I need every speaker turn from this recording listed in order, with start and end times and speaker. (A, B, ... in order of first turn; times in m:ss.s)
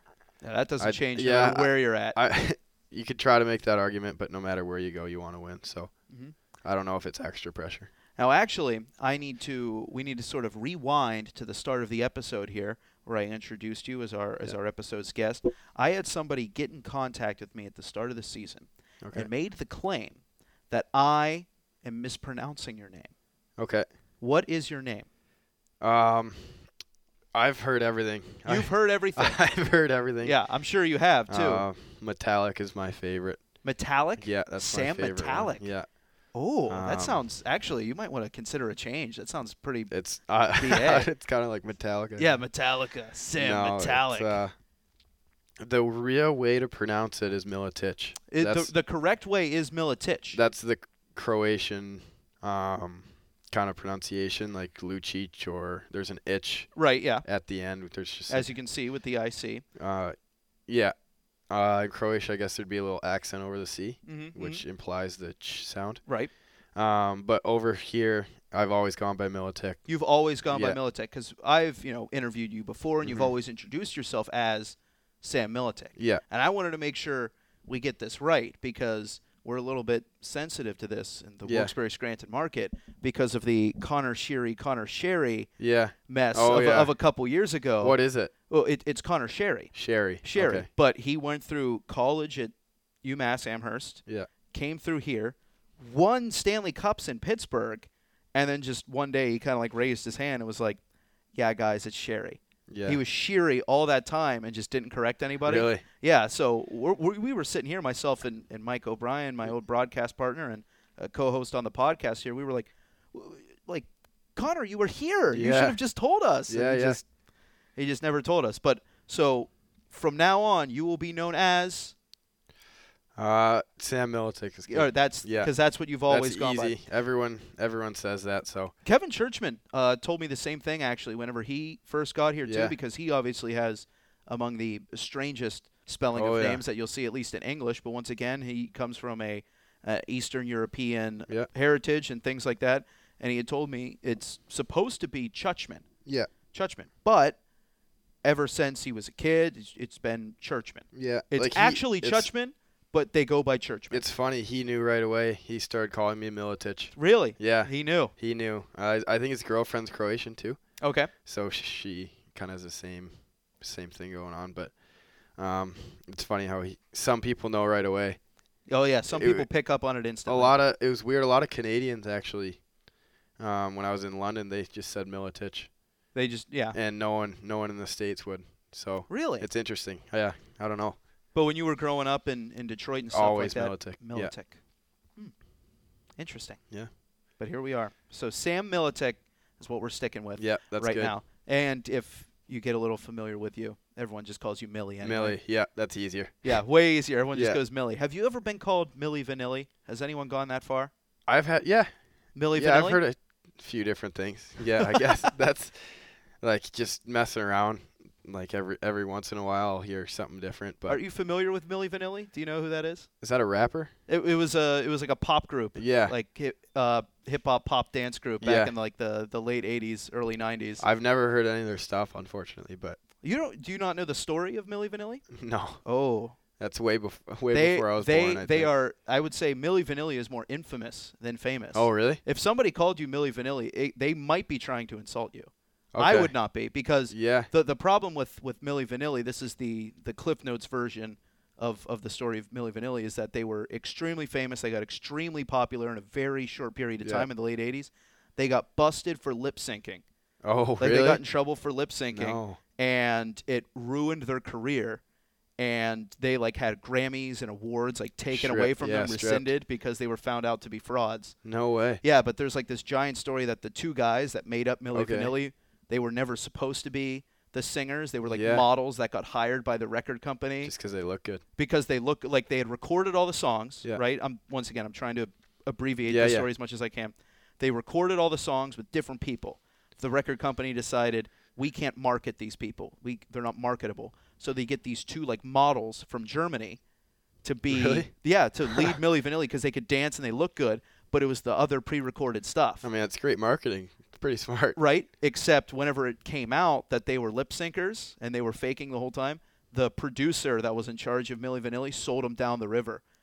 0:00.4-0:02.2 A
0:00.8-0:05.9 B
0:06.6-0:07.9 B
0:08.2-0:23.1 A
0:19.0-0:19.3 B
0:23.6-0:23.9 B
0:24.2-0:25.1 A
0:25.8-0:26.7 B
0:27.3-0:30.4 B
0:28.5-0:29.4 A
0:30.2-0:31.6 A
0:31.3-0:33.5 B
0:33.6-0:35.7 A
0:34.2-0:35.9 B
0:36.3-0:39.9 A
0:36.7-0:37.2 B
0:39.9-0:42.3 B
0:40.6-0:41.1 A
0:42.2-0:44.4 A
0:43.4-0:44.5 B
0:45.6-0:48.7 B
0:48.3-0:50.4 A
0:50.3-0:58.5 B
0:56.8-0:57.2 A
0:58.3-0:59.6 A
0:59.8-1:00.2 B
1:00.7-1:00.9 B
1:01.5-1:06.0 B
1:04.0-1:04.6 A
1:06.7-1:09.8 B
1:09.9-1:25.5 A
1:10.5-1:10.8 B
1:13.0-1:13.3 B
1:16.0-1:16.2 B
1:21.4-1:21.7 B
1:25.6-1:26.9 B
1:26.1-1:28.0 A
1:27.8-1:28.3 B
1:28.5-1:40.8 A
1:29.7-1:30.7 B
1:41.4-1:57.0 A
1:42.7-1:43.0 B
1:45.4-1:45.8 B
1:55.3-1:55.8 B
1:56.5-1:57.0 B
1:57.8-2:01.9 A
2:03.2-2:05.5 B
2:04.7-2:06.8 A
2:06.1-2:08.7 B
2:08.8-2:25.9 A
2:12.4-2:12.7 B
2:16.1-2:16.6 B
2:26.1-2:26.3 B
2:26.5-2:27.4 A
2:28.2-2:34.0 A
2:30.9-2:32.3 B
2:33.9-2:40.6 B
2:37.0-2:38.1 A
2:40.8-2:41.1 A
2:41.2-2:44.7 B
2:45.4-2:48.2 B
2:48.7-2:50.5 A
2:49.1-2:49.5 B
2:50.3-2:52.6 B
2:53.4-2:55.7 B
2:56.2-2:56.8 A
2:56.7-3:01.0 B
2:59.1-2:59.5 A
3:01.4-3:04.6 A
3:03.1-3:04.3 B
3:06.2-3:06.6 A
3:07.4-3:15.4 A
3:10.4-3:11.1 B
3:15.0-3:16.6 B
3:16.4-3:20.9 A
3:17.3-3:17.6 B
3:21.3-3:21.9 B
3:22.4-3:23.0 A
3:22.5-3:31.0 B
3:30.9-3:33.1 A
3:33.2-3:33.9 B
3:34.1-3:40.8 A
3:35.8-3:36.2 B
3:38.4-3:38.7 B
3:40.8-3:43.0 B
3:43.2-3:45.2 A
3:45.3-3:45.8 B
3:45.8-3:46.4 A
3:46.6-3:48.7 B
3:47.5-4:10.0 A
3:51.7-3:52.2 B
3:55.9-3:56.3 B
3:57.1-3:57.5 B
4:07.0-4:07.3 B
4:10.4-4:11.2 B
4:10.8-4:15.0 A
4:12.1-4:12.6 B
4:15.6-4:21.4 A
4:18.3-4:19.5 B
4:21.4-4:22.0 B
4:22.0-4:30.7 A
4:24.9-4:25.3 B
4:28.3-4:28.6 B
4:30.6-4:31.4 B
4:31.6-4:46.8 A
4:36.1-4:36.5 B
4:47.4-4:52.9 A
4:47.7-4:48.1 B
4:48.7-4:49.0 B
4:52.8-4:54.8 B
4:54.8-5:03.0 A